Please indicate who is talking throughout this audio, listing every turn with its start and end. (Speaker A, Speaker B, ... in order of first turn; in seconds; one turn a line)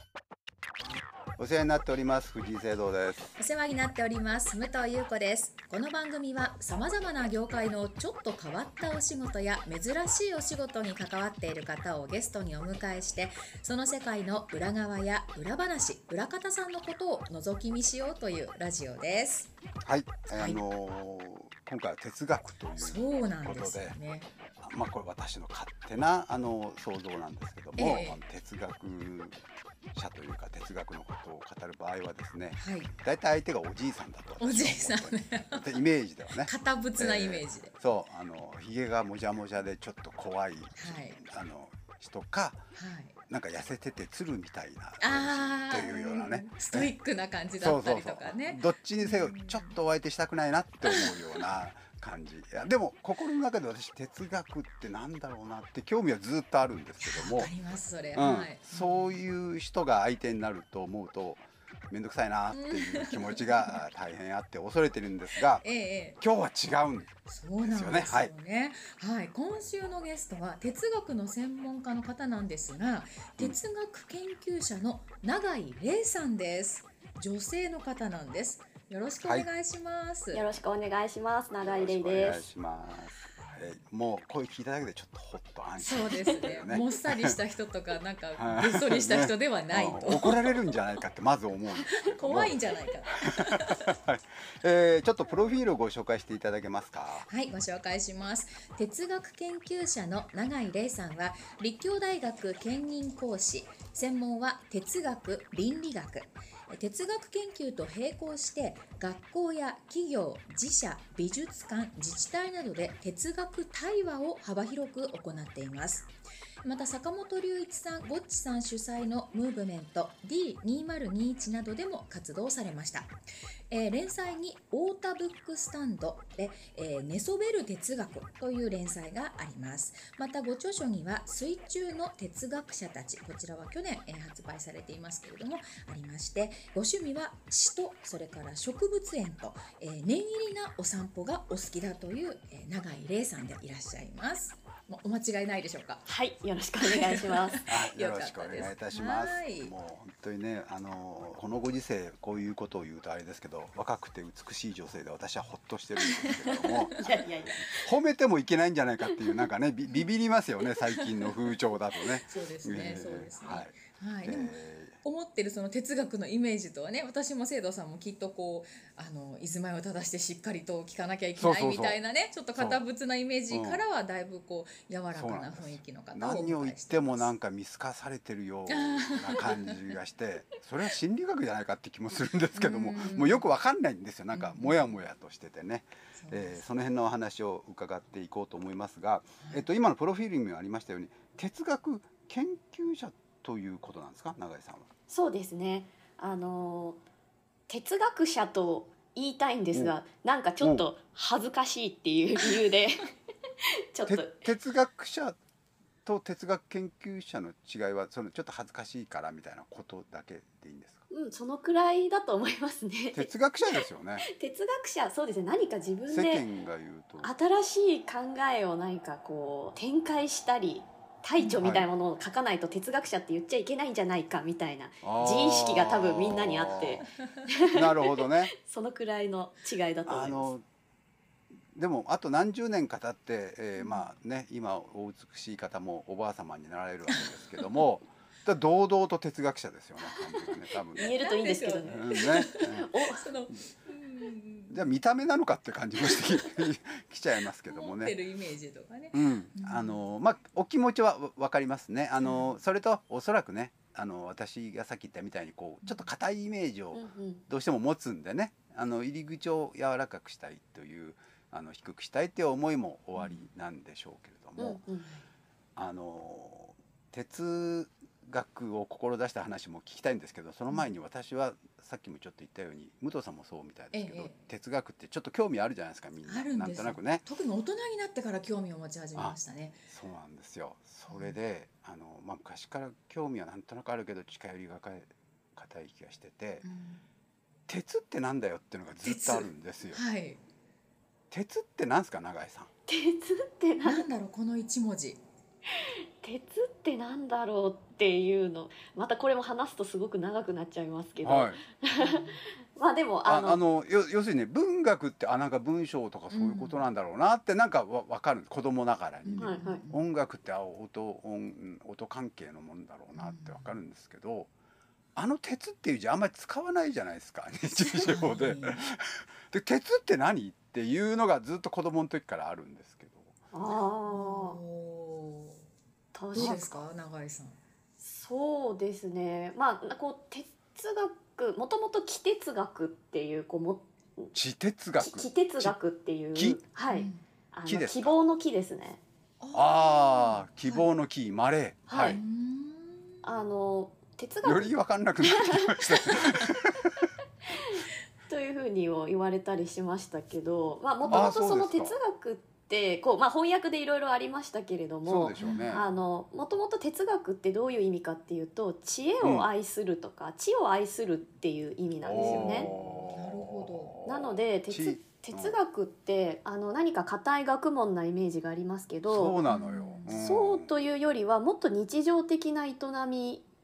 Speaker A: 1.4-3.3
Speaker B: 3.4-19.5
Speaker A: 19.9-24.0
Speaker B: 20.3-20.6
Speaker B: 22.8-24.3
Speaker A: 24.6-29.4
Speaker B: 27.8-28.2
Speaker A: 29.9-42.7
Speaker B: 32.6-32.9
Speaker B: 34.4-35.8
Speaker B: 36.4-37.7
Speaker B: 40.8-41.2
Speaker B: 42.8-43.2
Speaker A: 43.3-46.9
Speaker B: 45.0-49.8
Speaker A: 47.6-57.5
Speaker B: 50.9-51.4
Speaker B: 57.0-59.2
Speaker A: 58.1-65.7
Speaker B: 62.5-63.8
Speaker B: 65.6-66.2
Speaker A: 66.2-68.3
Speaker B: 67.3-80.5
Speaker A: 79.2-79.5
Speaker C: 80.3-82.4
Speaker A: 81.6-87.4
Speaker B: 85.8-90.8
Speaker A: 88.4-97.3
Speaker B: 91.9-93.9
Speaker B: 97.3-116.1
Speaker B: 116.6-123.1
Speaker B: 123.7-146.0
Speaker C: 146.1-147.6
Speaker B: 146.8-149.7
Speaker A: 147.7-165.0
Speaker B: 156.0-157.0
Speaker C: 157.0-157.9
Speaker B: 160.7-161.3
Speaker B: 162.1-177.3
Speaker A: 171.4-172.0
Speaker A: 172.6-172.8
Speaker A: 173.5-173.8
Speaker A: 175.1-194.9
Speaker B: 178.7-179.9
Speaker B: 182.6-183.4
Speaker B: 184.3-185.0
Speaker B: 186.2-186.6
Speaker C: 195.1-197.0
Speaker C: 197.7-203.1
Speaker C: 203.9-204.4
Speaker A: 204.1-205.4
Speaker A: 206.1-211.0
Speaker C: 211.1-213.3
Speaker A: 213.1-214.3
Speaker C: 214.2-216.4
Speaker A: 216.1-217.3
Speaker C: 217.2-230.5
Speaker B: 221.4-221.6
Speaker A: 221.6-221.9
Speaker A: 225.0-227.1
Speaker A: 227.7-228.5
Speaker A: 230.1-230.6
Speaker A: 231.7-241.1
Speaker B: 233.8-234.1
Speaker B: 237.1-237.8
Speaker B: 240.9-244.8
Speaker C: 241.0-243.3
Speaker A: 241.9-242.9
Speaker A: 244.7-248.2
Speaker B: 246.1-246.4
Speaker B: 247.7-250.0
Speaker A: 249.1-264.8
Speaker B: 252.2-252.5
Speaker C: 256.9-257.4
Speaker B: 263.2-263.5
Speaker C: 264.6-265.1
Speaker A: 265.8-277.2
Speaker B: 273.9-274.3
Speaker B: 276.3-279.8
Speaker A: 279.9-286.6
Speaker B: 281.1-281.4
Speaker B: 286.6-287.0
Speaker A: 287.7-290.0
Speaker B: 289.0-290.4
Speaker A: 291.3-292.7
Speaker C: 292.9-294.1
Speaker B: 293.8-295.2
Speaker C: 296.2-303.6
Speaker A: 301.2-301.6
Speaker B: 302.0-302.4
Speaker A: 303.3-314.5
Speaker B: 306.3-306.8
Speaker B: 309.2-310.0
Speaker C: 309.4-309.8
Speaker B: 313.1-313.7
Speaker A: 315.2-323.4
Speaker B: 318.1-318.8
Speaker C: 323.5-324.6
Speaker B: 324.1-325.6
Speaker C: 326.1-326.7
Speaker B: 326.3-327.6
Speaker A: 326.4-326.8
Speaker C: 328.0-334.3
Speaker A: 334.3-335.8
Speaker C: 335.0-339.0
Speaker A: 336.4-336.6
Speaker B: 336.9-337.2
Speaker A: 337.7-338.2
Speaker B: 339.4-340.9
Speaker A: 339.5-342.2
Speaker C: 341.9-342.2
Speaker B: 342.1-343.2
Speaker C: 343.2-346.5
Speaker A: 344.4-347.1
Speaker C: 347.6-362.7
Speaker B: 351.0-351.3
Speaker A: 351.1-352.0
Speaker A: 355.1-355.9
Speaker B: 355.4-355.9
Speaker A: 359.2-359.5
Speaker A: 362.0-365.6
Speaker B: 362.1-364.0
Speaker C: 364.1-369.4
Speaker A: 369.1-370.7
Speaker B: 369.5-370.2
Speaker C: 370.1-373.4